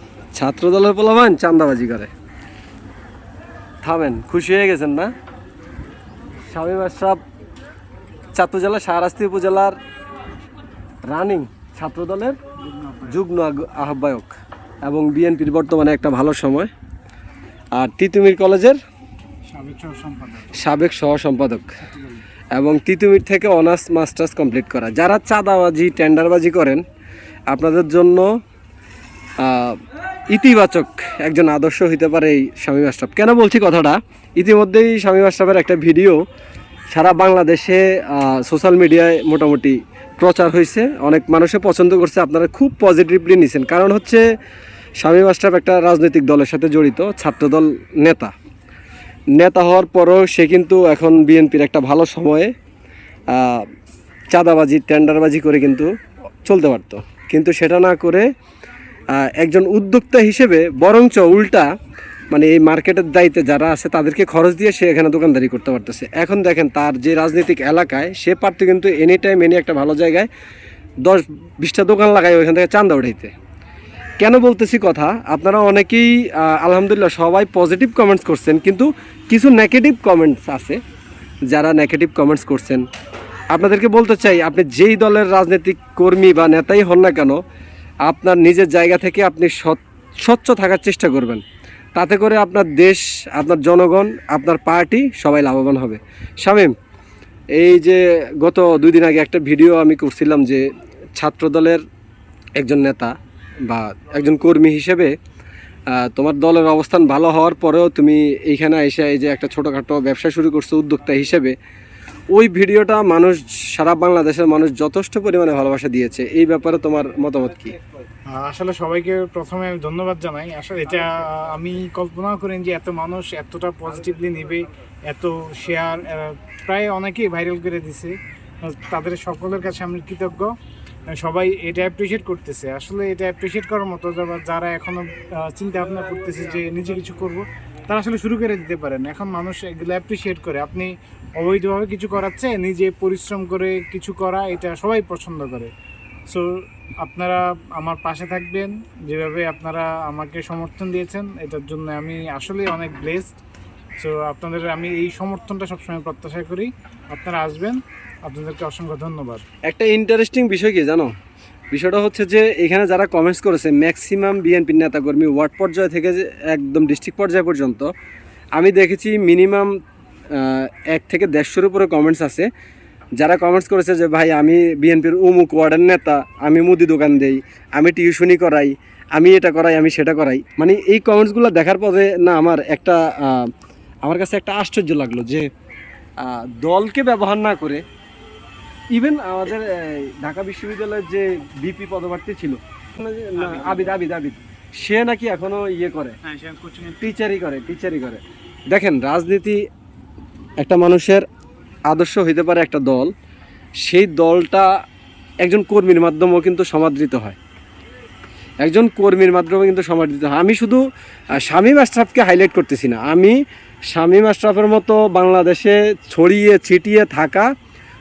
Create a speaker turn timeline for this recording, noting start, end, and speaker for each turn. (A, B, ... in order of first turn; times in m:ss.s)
0:00.3-0:02.1 A
0:03.8-0:05.1 A
0:06.5-0:07.2 A
0:08.3-0:09.8 A
0:11.1-0:12.4 A
0:12.6-0:13.2 B
0:13.1-0:16.7 A
0:17.8-0:18.8 A
0:19.5-0:20.6 B
0:20.5-0:21.7 A
0:21.8-0:22.2 B
0:22.5-0:26.8 A
0:27.5-0:28.3 A
0:29.4-0:29.8 A
0:30.3-0:36.2 A
0:36.9-0:44.2 A
0:45.0-0:48.3 A
0:49.4-0:52.5 A
0:53.3-0:53.7 A
0:54.3-0:55.9 A
0:56.4-0:58.3 A
0:59.1-1:01.7 A
1:02.3-1:10.3 A
1:11.0-1:13.3 A
1:14.2-1:20.8 A
1:21.5-1:22.8 A
1:23.5-1:27.4 A
1:28.1-1:31.4 A
1:32.0-1:36.8 A
1:37.6-1:41.8 A
1:42.6-1:43.1 A
1:43.6-1:45.1 A
1:45.9-1:51.6 A
1:52.3-1:57.8 A
1:58.3-2:10.5 B
2:11.1-2:25.7 B
2:26.3-2:33.4 B
2:34.0-2:39.4 B
2:39.6-2:41.1 A
2:41.7-2:47.9 A
2:48.6-2:49.7 A
2:50.3-2:52.5 A
2:53.2-3:03.5 A
3:04.0-3:05.5 A
3:06.2-3:07.8 A
3:08.9-3:16.2 A
3:13.4-3:14.0 B
3:16.2-3:17.1 B
3:17.0-3:19.6 A
3:20.6-3:21.2 A
3:21.9-3:23.1 A
3:23.8-3:24.7 A
3:25.4-3:27.4 A
3:28.6-3:30.8 A
3:31.4-3:33.4 A
3:33.9-3:37.5 A